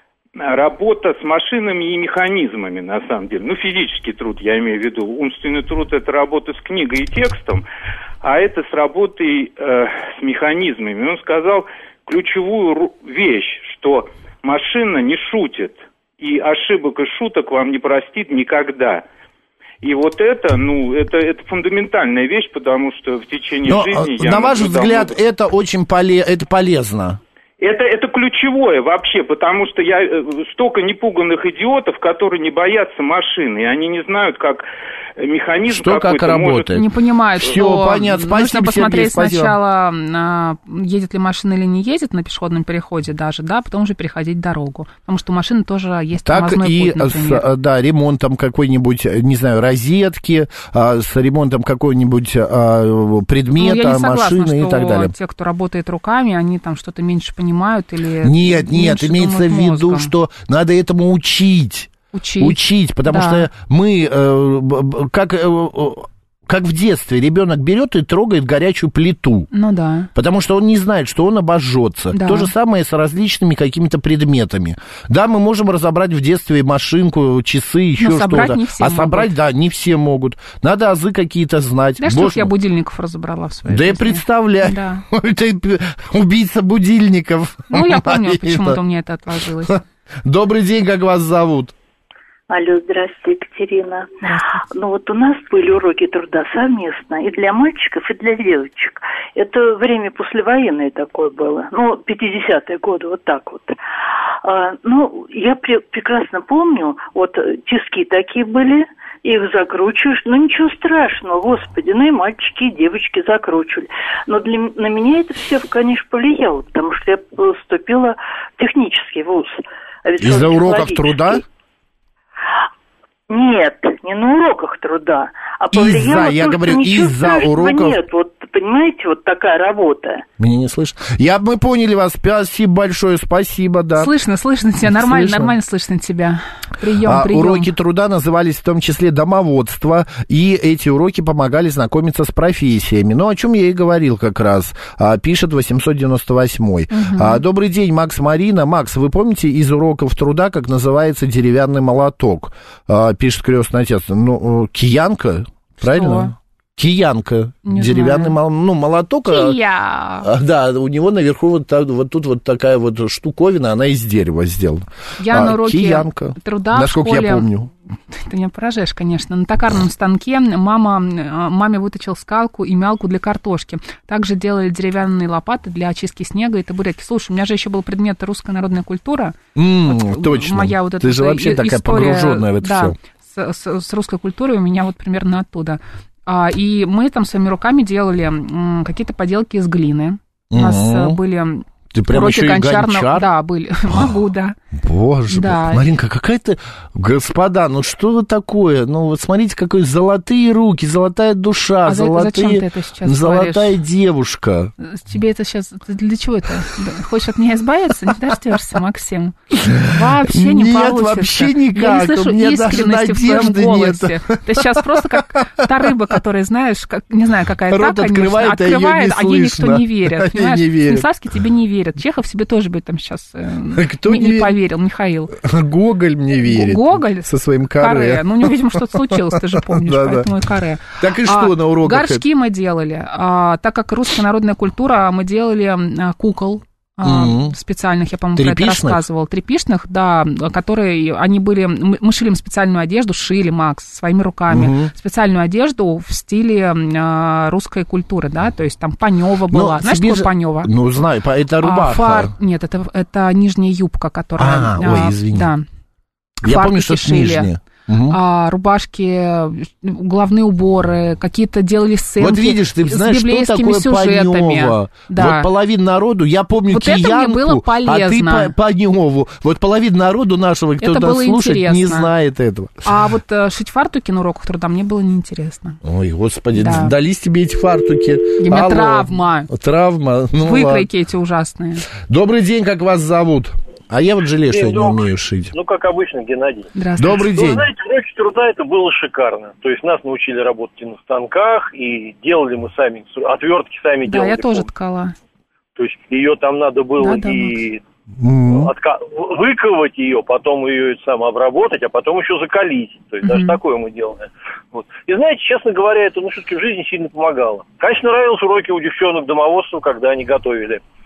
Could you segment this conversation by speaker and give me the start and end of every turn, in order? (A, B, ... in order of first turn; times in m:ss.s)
0:00.4-0:07.6 A
0:08.2-0:19.0 A
0:19.8-0:25.1 A
0:23.7-0:27.2 B
0:27.6-0:34.6 A
0:35.2-0:36.8 A
0:35.7-0:36.9 B
0:36.8-0:47.5 C
0:37.4-0:39.6 B
0:46.3-0:55.1 B
0:53.6-1:00.1 C
0:58.2-1:09.5 B
1:02.1-1:03.5 C
1:09.5-1:10.1 C
1:10.1-1:22.5 B
1:12.1-1:12.5 C
1:18.0-1:19.3 C
1:22.0-1:25.0 C
1:23.7-1:28.8 B
1:27.7-1:29.8 C
1:29.7-1:31.7 B
1:32.5-1:34.1 D
1:34.2-1:34.6 C
1:34.7-1:43.8 D
1:44.4-2:01.4 D
2:00.2-2:01.4 B
2:03.3-2:10.2 D
2:05.7-2:08.0 B
2:10.4-2:14.1 B
2:14.0-2:17.7 C
2:14.8-2:15.6 B
2:17.0-2:39.6 B
2:26.9-2:27.4 C
2:35.8-2:36.3 C
2:37.6-2:38.4 C
2:39.3-2:40.3 C
2:40.2-2:47.7 B
2:45.2-2:47.5 C
2:48.1-3:14.6 C
2:59.6-3:03.0 B
3:10.5-3:11.2 B
3:11.9-3:13.3 B
3:14.7-3:24.7 B
3:15.3-3:15.9 C
3:21.8-3:23.8 C
3:24.8-3:45.4 C
3:29.5-3:35.9 B
3:37.7-3:41.1 B
3:43.7-3:44.6 B
3:45.4-3:50.3 B
3:46.4-4:10.7 C
3:51.0-3:52.2 B
3:57.0-3:57.6 B
3:58.4-3:59.0 B
4:04.5-4:04.9 B
4:09.5-4:12.3 B
4:11.6-4:15.6 C
4:14.4-4:15.5 B
4:16.4-4:17.5 C
4:16.4-4:18.2 B
4:18.1-4:25.5 C
4:22.2-4:32.9 B
4:26.7-4:28.5 C
4:30.8-4:32.1 C
4:32.8-4:35.8 C
4:35.8-4:40.9 B
4:36.6-4:36.9 C
4:38.4-4:39.5 C
4:40.4-4:41.9 C
4:42.0-4:45.5 B
4:44.5-4:54.7 E
4:46.8-4:47.3 C
4:47.0-4:47.7 B
4:54.1-4:55.2 C
4:55.8-4:57.8 E
4:57.0-4:57.6 C
4:58.2-4:58.7 B
4:58.5-5:10.8 E
5:03.2-5:03.6 C